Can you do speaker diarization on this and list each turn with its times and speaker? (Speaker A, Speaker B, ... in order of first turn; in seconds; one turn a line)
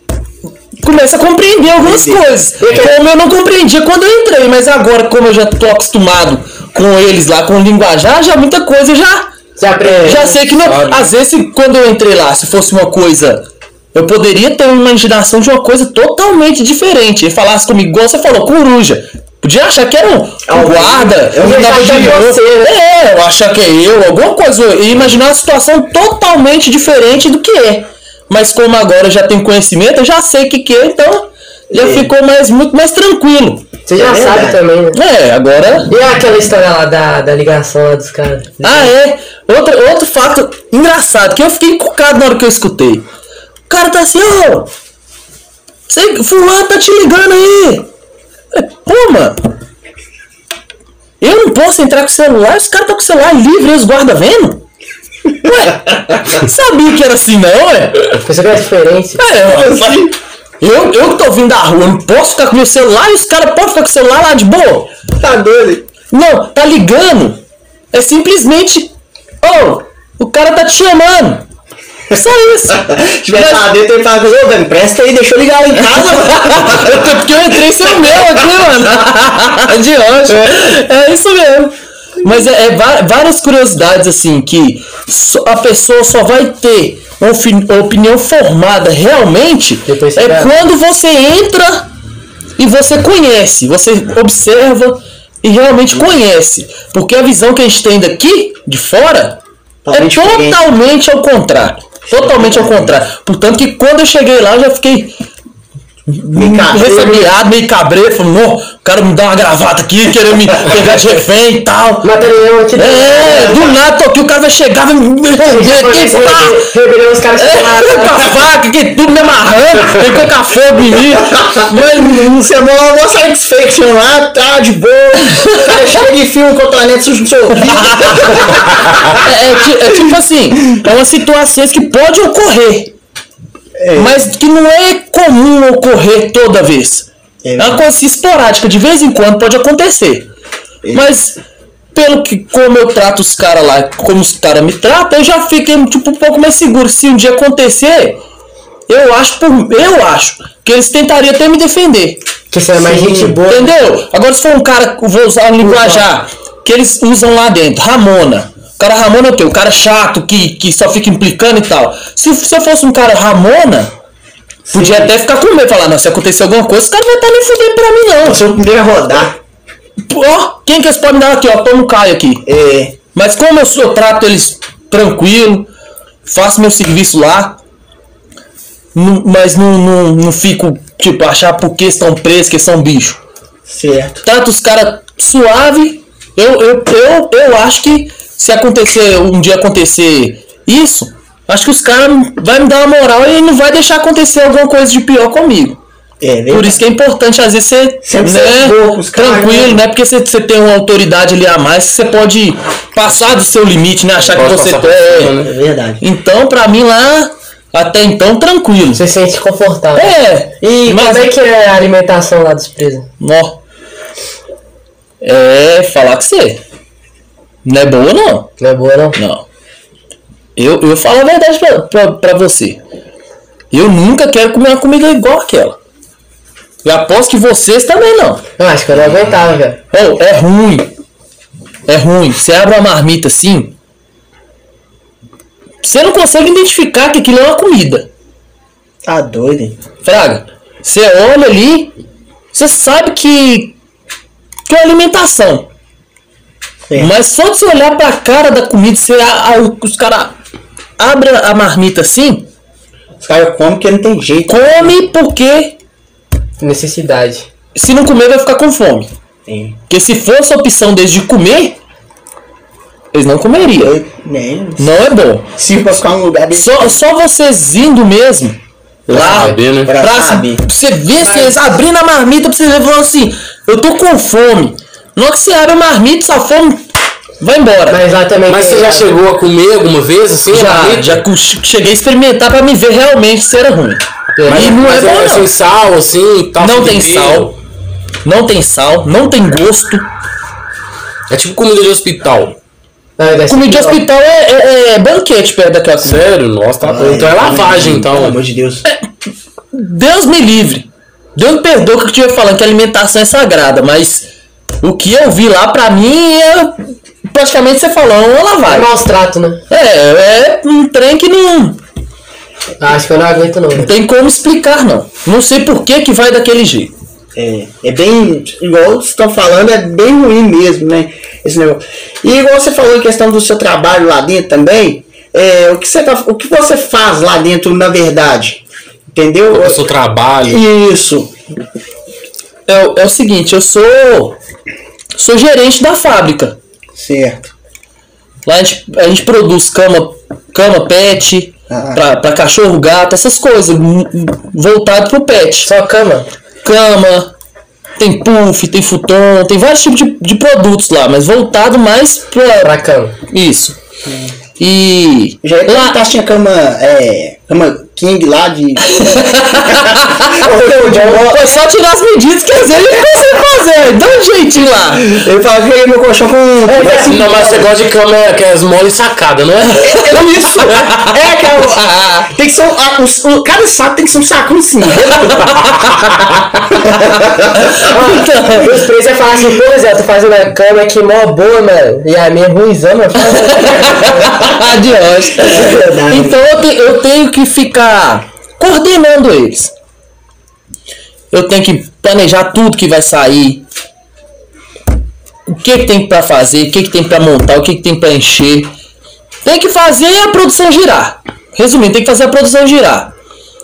Speaker A: 0.8-9.3
Speaker B: 1.8-2.3
Speaker C: 2.6-2.9
Speaker C: 9.6-10.7
Speaker A: 10.0-33.6
Speaker B: 20.5-22.0
Speaker C: 21.4-22.7
Speaker B: 31.7-32.1
Speaker C: 33.9-35.0
Speaker B: 34.0-34.6
Speaker A: 34.9-35.9
Speaker C: 35.9-38.9
Speaker A: 38.6-43.0
Speaker A: 43.7-44.7
Speaker A: 45.9-47.9
Speaker A: 48.5-49.5
Speaker A: 51.2-54.6
Speaker A: 55.4-58.2
Speaker C: 58.2-59.2
Speaker A: 59.2-60.0
Speaker B: 59.4-60.1
Speaker A: 60.6-64.9
Speaker B: 65.2-65.9
Speaker A: 66.1-67.4
Speaker A: 67.9-71.5
Speaker A: 72.1-73.7
Speaker B: 72.7-78.7
Speaker A: 75.9-91.9
Speaker B: 80.3-80.7
Speaker C: 89.9-90.5
Speaker A: 92.6-99.4
Speaker B: 99.8-100.6
Speaker A: 99.9-105.1
Speaker B: 102.3-102.8
Speaker A: 106.1-112.1
Speaker B: 106.3-107.3
Speaker C: 112.0-113.6
Speaker A: 112.8-116.7
Speaker B: 113.3-113.7
Speaker C: 115.4-118.3
Speaker A: 117.4-122.5
Speaker B: 122.3-129.3
Speaker A: 127.7-128.4
Speaker A: 129.2-132.9
Speaker B: 133.8-134.2
Speaker A: 133.9-140.3
Speaker B: 137.4-137.8
Speaker A: 140.9-141.4
Speaker A: 141.9-148.2
Speaker A: 148.9-152.2
Speaker C: 152.5-153.8
Speaker A: 152.7-163.9
Speaker C: 155.6-156.0
Speaker B: 164.7-165.1
Speaker A: 164.7-168.4
Speaker B: 168.2-169.4
Speaker A: 170.1-172.4
Speaker B: 172.5-173.0
Speaker A: 173.1-175.7
Speaker A: 176.2-177.6
Speaker A: 178.9-183.2
Speaker B: 183.7-184.2
Speaker A: 184.2-195.8
Speaker B: 196.2-196.8
Speaker A: 196.5-205.4
Speaker B: 198.1-199.8
Speaker D: 204.3-205.5
Speaker B: 205.4-206.0
Speaker A: 206.0-209.0
Speaker C: 208.9-213.1
Speaker A: 209.9-211.3
Speaker A: 213.2-213.6
Speaker A: 215.2-216.6
Speaker A: 217.6-218.5
Speaker C: 218.6-219.2
Speaker A: 219.2-219.4
Speaker A: 220.6-222.8
Speaker A: 223.7-225.8
Speaker A: 226.8-228.4
Speaker C: 228.6-229.8
Speaker A: 229.9-230.9
Speaker A: 231.9-233.7
Speaker A: 235.8-238.1
Speaker B: 239.1-239.8
Speaker A: 240.0-241.9
Speaker A: 242.5-243.8
Speaker A: 244.7-245.7
Speaker A: 247.0-250.3
Speaker A: 251.0-252.5
Speaker B: 253.2-254.9
Speaker A: 254.5-255.8
Speaker C: 256.6-257.5
Speaker A: 257.8-259.1
Speaker B: 259.5-259.8
Speaker A: 259.9-261.8
Speaker A: 263.1-263.9
Speaker B: 263.8-264.9
Speaker A: 264.8-265.5
Speaker B: 265.6-267.0
Speaker A: 266.5-268.6
Speaker D: 269.1-269.9
Speaker A: 269.1-276.8
Speaker B: 269.2-270.6
Speaker B: 271.2-271.8
Speaker A: 277.4-278.0
Speaker C: 277.9-279.2
Speaker D: 278.5-281.2
Speaker A: 280.5-285.5
Speaker C: 284.4-284.7
Speaker D: 284.4-287.6
Speaker A: 286.6-287.5
Speaker A: 288.2-290.1
Speaker D: 291.3-292.6
Speaker C: 293.2-294.0
Speaker A: 293.5-296.2
Speaker D: 296.0-298.4
Speaker B: 296.8-298.8
Speaker A: 299.7-304.3
Speaker A: 304.8-308.9
Speaker C: 308.6-309.6
Speaker A: 309.7-311.8
Speaker C: 312.8-313.9
Speaker A: 313.7-316.9
Speaker B: 317.4-329.8
Speaker D: 329.5-330.6
Speaker B: 330.5-331.3
Speaker A: 332.7-334.4
Speaker A: 335.2-336.6
Speaker B: 337.0-337.5
Speaker A: 338.4-345.7
Speaker B: 341.7-342.0
Speaker C: 345.6-346.3
Speaker A: 346.6-347.3
Speaker A: 348.0-352.8
Speaker C: 352.6-353.1
Speaker A: 353.3-353.8
Speaker B: 354.1-354.3
Speaker A: 354.6-356.0
Speaker B: 355.4-361.4
Speaker A: 358.9-365.2
Speaker C: 360.4-361.6
Speaker B: 365.1-367.7
Speaker D: 366.7-369.9
Speaker C: 366.7-367.0
Speaker A: 369.8-371.2
Speaker B: 369.8-375.8
Speaker A: 371.8-372.3
Speaker B: 376.7-377.9
Speaker A: 377.9-378.8
Speaker C: 377.9-384.3
Speaker A: 383.2-389.7
Speaker B: 385.4-386.3
Speaker A: 391.3-393.6
Speaker A: 395.5-398.7
Speaker A: 399.4-403.1